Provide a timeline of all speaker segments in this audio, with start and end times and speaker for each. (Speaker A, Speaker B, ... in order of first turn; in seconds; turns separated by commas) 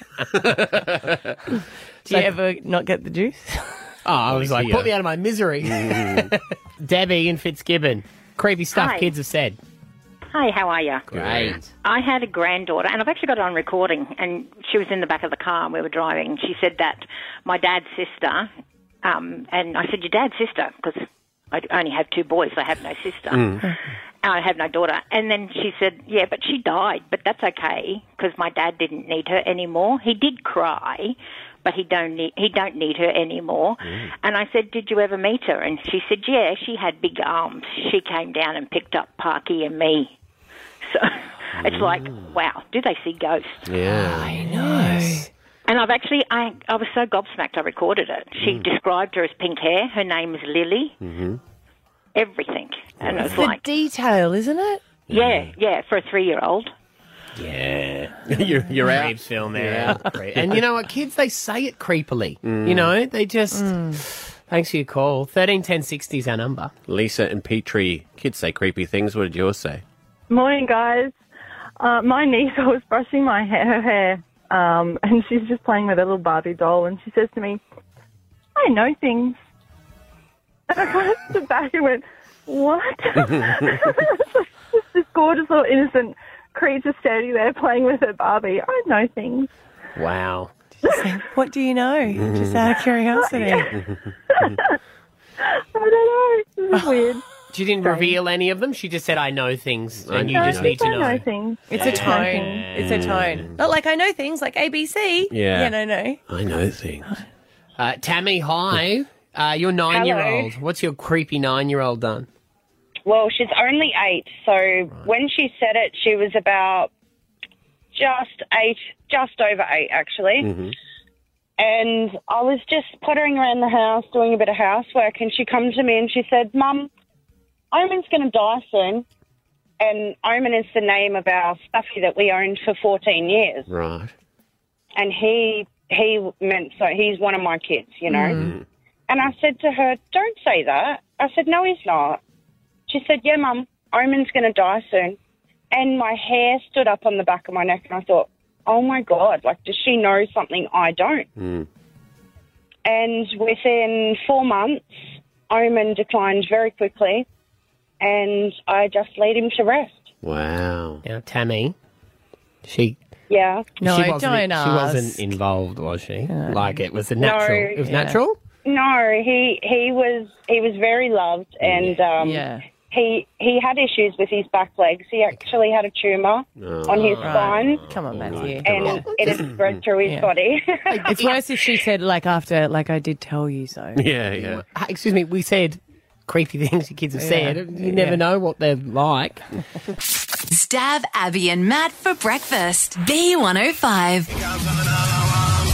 Speaker A: 0.2-1.4, Speaker B: 2.0-3.8, Speaker C: 4.0-9.6, Speaker A: 4.3-4.9, Speaker A: 5.7-6.3, Speaker D: 8.7-9.1, Speaker D: 10.3-11.1, Speaker A: 11.1-11.6, Speaker C: 11.1-11.7, Speaker D: 11.8-18.5, Speaker D: 19.0-23.6, Speaker A: 23.3-23.6, Speaker D: 24.2-40.1, Speaker A: 33.8-34.1, Speaker D: 40.8-43.7, Speaker A: 41.6-42.3, Speaker A: 43.6-44.4, Speaker B: 44.0-45.3, Speaker C: 44.0-45.2, Speaker D: 45.7-51.0, Speaker A: 48.4-48.7, Speaker A: 51.0-51.4, Speaker D: 52.1-53.6, Speaker A: 53.0-53.4, Speaker B: 53.3-54.8, Speaker D: 55.1-56.7, Speaker A: 55.1-55.5, Speaker C: 57.4-58.2, Speaker A: 58.3-60.6, Speaker C: 58.8-66.7, Speaker A: 62.4-62.9, Speaker B: 63.5-64.0, Speaker A: 66.9-69.8, Speaker E: 70.3-71.2, Speaker E: 71.8-77.6, Speaker E: 78.6-79.4, Speaker E: 80.7-89.5, Speaker C: 90.0-90.5, Speaker B: 90.8-93.7, Speaker A: 92.1-92.6, Speaker A: 93.4-94.0, Speaker E: 94.4-94.8, Speaker E: 95.8-97.2, Speaker C: 97.5-103.2, Speaker B: 97.8-98.2, Speaker A: 100.0-101.1, Speaker E: 100.3-102.6, Speaker B: 101.7-106.2, Speaker A: 102.8-103.5, Speaker A: 105.3-105.7, Speaker A: 106.3-107.1, Speaker C: 107.8-112.3, Speaker F: 109.9-110.5, Speaker F: 113.0-116.9, Speaker F: 117.9-120.5, Speaker A: 120.4-120.8, Speaker F: 121.6-126.9, Speaker F: 127.7-129.0, Speaker F: 129.8-133.7, Speaker A: 133.7-134.1, Speaker F: 135.0-138.4, Speaker B: 138.1-138.4, Speaker A: 138.4-138.6, Speaker F: 139.1-142.2, Speaker F: 142.9-145.2, Speaker F: 145.7-151.3, Speaker A: 151.4-151.7, Speaker F: 152.8-154.9, Speaker F: 155.5-157.2, Speaker F: 158.0-160.1, Speaker A: 160.2-161.0, Speaker C: 161.1-161.7, Speaker C: 162.6-162.9, Speaker F: 163.3-163.7, Speaker B: 163.8-165.2, Speaker C: 163.8-168.4, Speaker B: 166.3-166.8, Speaker F: 167.2-167.8, Speaker B: 167.8-168.2, Speaker F: 168.6-177.8, Speaker A: 171.6-172.0, Speaker B: 172.2-172.6, Speaker A: 176.6-179.7, Speaker B: 177.2-179.1, Speaker F: 178.6-181.1, Speaker C: 180.9-181.4, Speaker B: 181.1-184.0, Speaker A: 183.9-184.6, Speaker C: 184.5-189.4, Speaker B: 187.2-188.2, Speaker G: 190.5-194.3